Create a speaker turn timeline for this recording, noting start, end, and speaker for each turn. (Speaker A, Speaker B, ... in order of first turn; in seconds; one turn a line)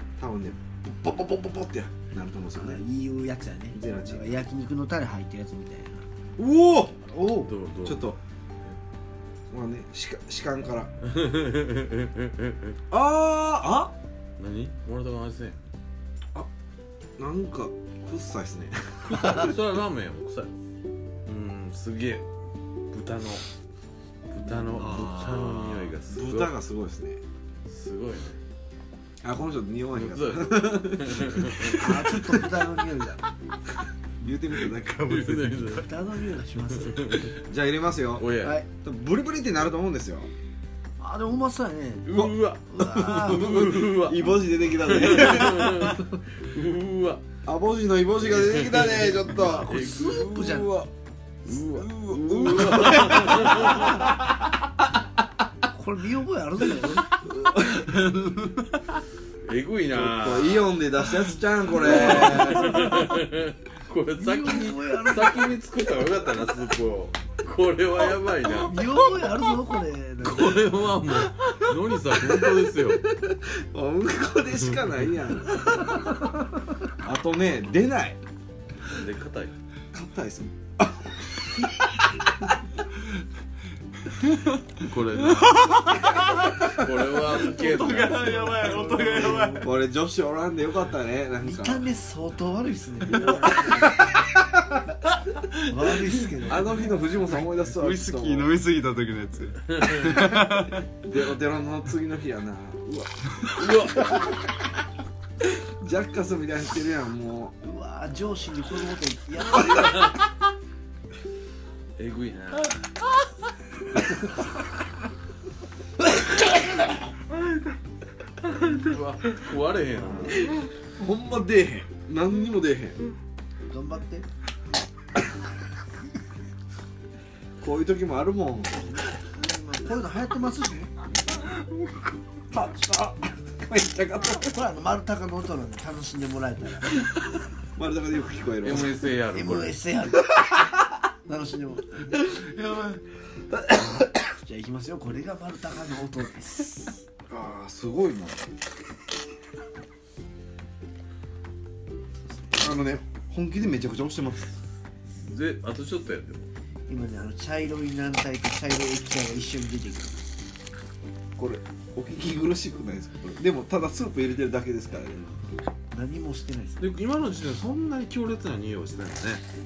Speaker A: 0.2-2.8
Speaker B: 2.5-6.0
Speaker A: 3.7-4.4
Speaker A: 6.4-7.0
Speaker B: 7.0-7.5
Speaker C: 7.4-8.1
Speaker A: 7.8-8.2
Speaker A: 9.5-11.0
Speaker C: 11.0-12.8
Speaker A: 12.9-13.9
Speaker C: 14.4-15.7
Speaker A: 17.2-19.5
Speaker C: 19.1-20.6
Speaker C: 21.2-22.3
Speaker C: 22.9-23.5
Speaker C: 24.3-26.5
Speaker A: 24.6-27.2
Speaker D: 24.9-25.4
Speaker C: 27.7-28.4
Speaker A: 29.2-32.4
Speaker C: 29.9-32.1
Speaker B: 31.6-33.3
Speaker A: 34.2-35.8
Speaker C: 35.0-35.9
Speaker B: 35.7-37.3
Speaker C: 36.7-37.4
Speaker A: 37.4-40.3
Speaker C: 38.2-38.6
Speaker B: 38.4-38.7
Speaker B: 41.0-43.7
Speaker C: 42.0-47.2
Speaker A: 42.1-42.4
Speaker A: 43.3-45.9
Speaker A: 47.4-50.9
Speaker C: 48.2-50.6
Speaker B: 48.9-50.7
Speaker C: 51.4-54.3
Speaker A: 51.5-54.1
Speaker B: 55.7-58.3
Speaker A: 57.2-58.1
Speaker C: 59.4-60.8
Speaker A: 59.9-62.8
Speaker C: 61.7-68.9
Speaker B: 62.3-62.6
Speaker B: 64.2-65.6
Speaker B: 68.5-71.0
Speaker C: 70.2-73.0
Speaker A: 72.2-78.2
Speaker C: 78.8-79.6
Speaker A: 79.9-82.3
Speaker D: 84.1-89.7
Speaker C: 84.8-85.9
Speaker C: 86.4-88.7
Speaker B: 88.0-89.7
Speaker A: 89.5-91.8
Speaker B: 91.4-94.2
Speaker B: 95.5-96.9
Speaker A: 96.4-98.5
Speaker D: 97.3-100.9
Speaker A: 100.8-104.3
Speaker C: 103.6-104.1
Speaker A: 105.4-107.6
Speaker B: 107.6-110.1
Speaker C: 109.7-110.2
Speaker C: 112.0-112.9
Speaker C: 118.4-120.5
Speaker B: 120.0-120.5
Speaker A: 120.3-123.0
Speaker B: 123.7-124.3
Speaker A: 127.6-129.1
Speaker B: 129.3-130.9
Speaker A: 132.5-134.6
Speaker B: 134.4-137.0
Speaker A: 137.7-139.0
Speaker C: 138.6-139.8
Speaker B: 139.3-140.6
Speaker B: 141.2-142.2
Speaker A: 142.3-142.8
Speaker B: 144.0-147.0
Speaker A: 147.3-148.5
Speaker B: 152.4-152.8
Speaker A: 152.5-154.6
Speaker C: 155.1-156.5
Speaker B: 156.9-160.4
Speaker A: 161.4-165.4
Speaker B: 165.9-167.0
Speaker C: 166.8-169.5